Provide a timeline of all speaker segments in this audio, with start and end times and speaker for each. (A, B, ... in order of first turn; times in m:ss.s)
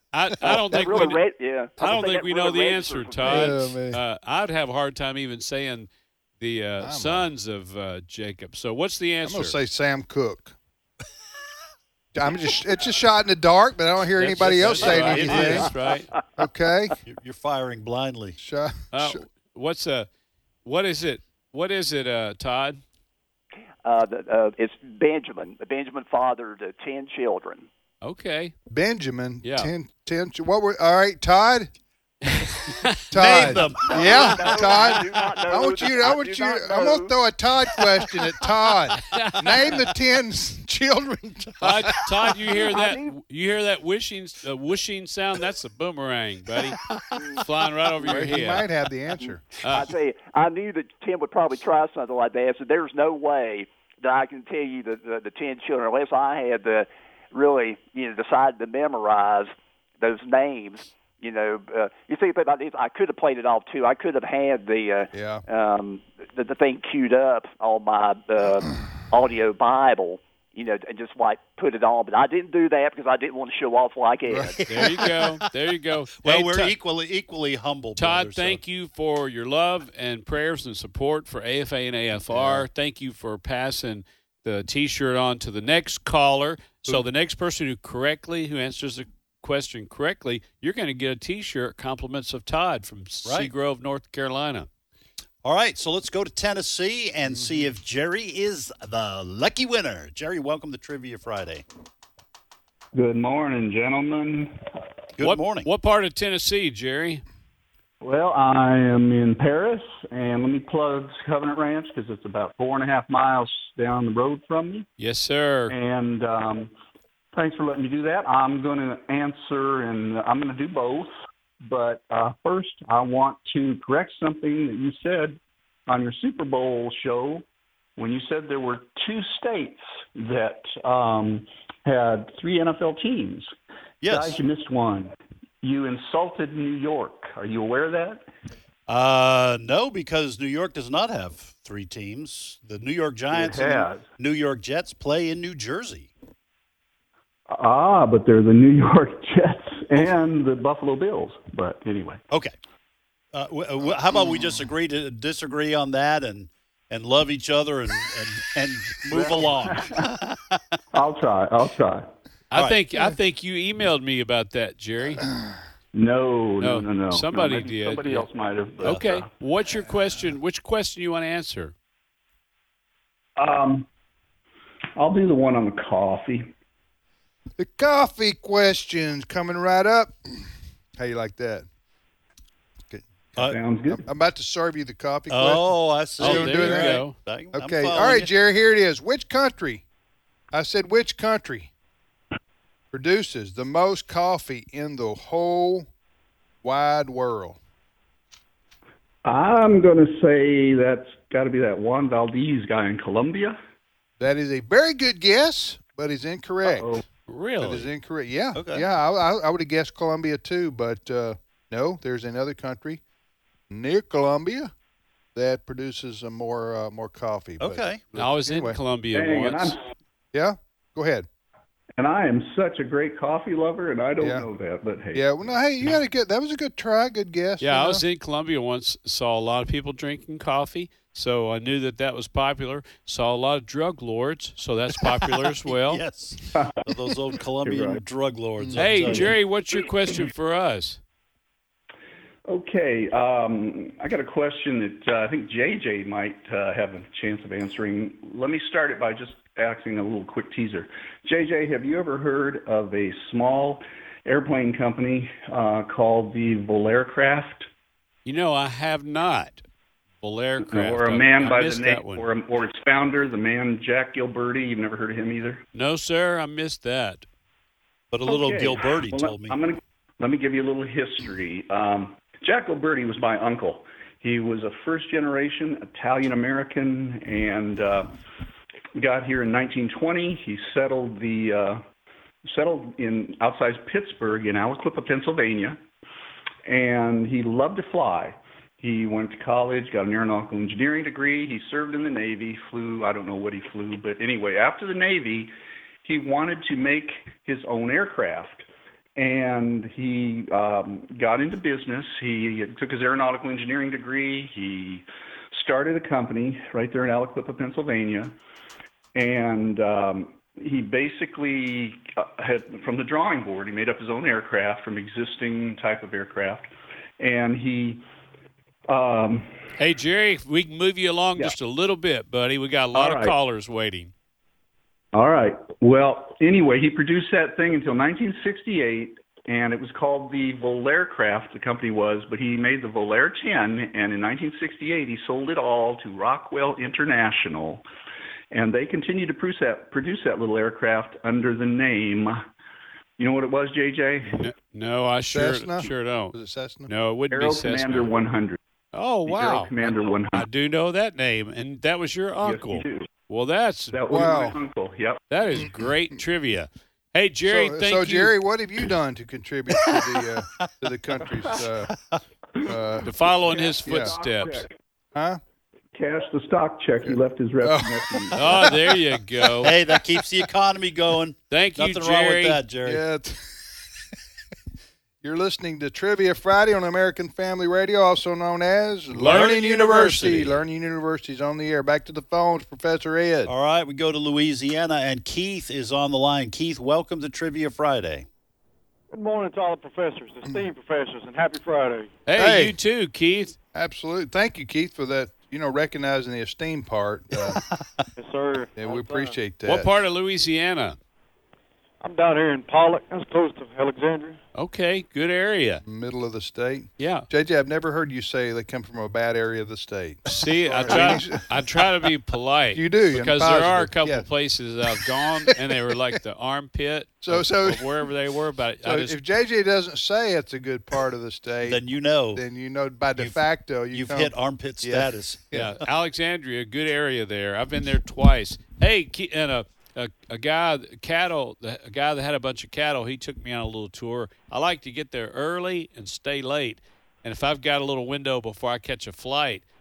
0:00.1-0:01.2 A
0:00.7-0:03.5 B
0:01.8-0:05.9 A
0:03.2-0:04.0 C
0:06.4-0:09.6 A
0:06.8-0:07.3 C
0:09.2-0:10.6 C
0:12.1-0:15.7 C
0:14.2-0:16.1 A
0:14.4-0:15.7 D
0:16.4-0:17.0 C
0:17.0-0:18.4 D
0:18.4-0:19.2 C
0:18.9-0:20.1 A
0:20.6-0:22.8 A
0:23.8-0:27.7 B
0:28.0-0:28.5 A
0:28.7-0:31.7 C
0:29.4-0:29.7 A
0:32.4-0:33.5 A
0:33.1-0:42.0 C
0:33.1-0:34.4 D
0:33.8-0:37.1 B
0:39.0-0:39.8 A
0:41.6-0:46.8 A
0:42.7-0:43.1 B
0:47.4-0:48.6 A
0:48.0-0:49.4 C
0:49.6-1:14.6 B
1:05.1-1:05.4 C
1:14.3-1:14.8 C
1:14.6-1:15.4 D
1:14.7-1:16.7 A
1:16.2-1:18.6 D
1:18.0-1:34.7 A
1:22.3-1:22.7 C
1:33.2-1:33.5 D
1:35.4-1:41.6 D
1:37.3-1:37.7 C
1:42.9-1:44.6 E
1:45.2-1:45.7 D
1:45.2-1:47.2 A
1:48.0-1:54.8 E
1:55.0-1:55.7 A
1:55.7-1:56.7 E
1:57.3-2:01.1 E
2:01.6-2:07.4 E
2:08.0-2:13.5 E
2:14.0-2:14.4 D
2:14.1-2:18.2 E
2:18.9-2:26.1 D
2:23.3-2:24.1 E
2:27.5-2:32.2 E
2:33.3-2:40.6 D
2:39.1-2:40.0 E
2:40.9-2:42.1 E
2:42.5-2:45.3 A
2:45.9-2:49.3 E
2:46.6-2:48.2 A
2:48.8-2:51.7 A
2:53.4-2:53.9 E
2:55.0-2:56.5 E
2:57.6-3:01.7 C
3:03.4-3:04.0 E
3:03.9-3:09.8 C
3:05.3-3:08.3 D
3:06.2-3:07.2 A
3:10.5-3:11.7 C
3:12.9-3:15.9 C
3:16.6-3:17.6 C
3:19.2-3:23.6 E
3:24.2-3:26.9 C
3:26.6-3:27.0 E
3:27.3-3:27.9 A
3:27.6-3:33.0 C
3:28.6-3:28.8 D
3:33.7-3:34.7 C
3:35.3-3:38.8 C
3:37.6-3:38.0 D
3:38.1-3:39.8 A
3:39.1-3:39.8 E
3:40.3-3:41.3 C
3:42.0-3:45.4 E
3:44.2-3:44.5 C
3:45.1-3:48.0 C
3:47.6-3:56.0 A
3:55.4-3:59.3 D
3:56.5-3:56.8 E
3:57.6-3:58.0 E
3:58.8-4:01.0 A
4:02.5-4:17.7 E
4:18.2-4:19.6 A
4:20.2-4:22.2 A
4:20.6-4:25.6 E
4:25.7-4:27.2 A
4:28.1-4:29.6 D
4:28.2-4:38.1 E
4:39.0-4:41.8 E
4:42.4-4:45.8 E
4:46.6-4:55.5 E
4:56.0-5:08.3 E
5:09.1-5:18.0 E
5:18.9-5:19.5 E
5:19.8-5:24.1 A
5:22.9-5:23.3 E
5:25.1-5:37.8 E
5:38.5-5:42.4 E
5:43.2-5:44.5 E
5:44.3-5:46.4 A
5:45.3-5:46.9 C
5:46.9-5:48.1 A
5:47.3-5:48.6 E
5:48.9-5:54.0 A
5:49.2-5:50.4 E
5:52.4-5:53.1 E
5:53.9-5:55.2 E
5:54.1-5:54.6 C
5:55.3-5:58.3 A
5:57.5-6:01.9 C
6:01.5-6:02.2 D
6:02.6-6:03.1 C
6:03.0-6:04.6 A
6:03.3-6:04.7 E
6:03.8-6:04.1 C
6:05.1-6:05.4 C
6:05.9-6:08.7 E
6:07.6-6:08.6 C
6:08.3-6:09.8 A
6:09.6-6:13.0 D
6:11.5-6:12.6 A
6:12.8-6:13.6 C
6:15.2-6:23.5 C
6:19.1-6:20.6 A
6:19.2-6:19.5 D
6:23.4-6:28.2 D
6:29.1-6:32.1 F
6:32.3-6:33.5 A
6:32.3-6:32.8 C
6:33.7-6:37.6 C
6:37.5-6:38.0 D
6:38.2-6:39.4 F
6:38.8-6:39.9 C
6:39.6-6:41.0 A
6:42.0-6:44.4 F
6:44.5-6:45.8 A
6:45.8-6:51.6 C
6:47.0-6:47.3 A
6:50.3-6:59.2 A
6:52.7-6:54.3 C
6:57.2-6:57.9 C
6:58.8-7:01.8 C
7:01.6-7:02.4 D
7:02.3-7:05.7 C
7:03.2-7:05.6 D
7:05.5-7:19.6 A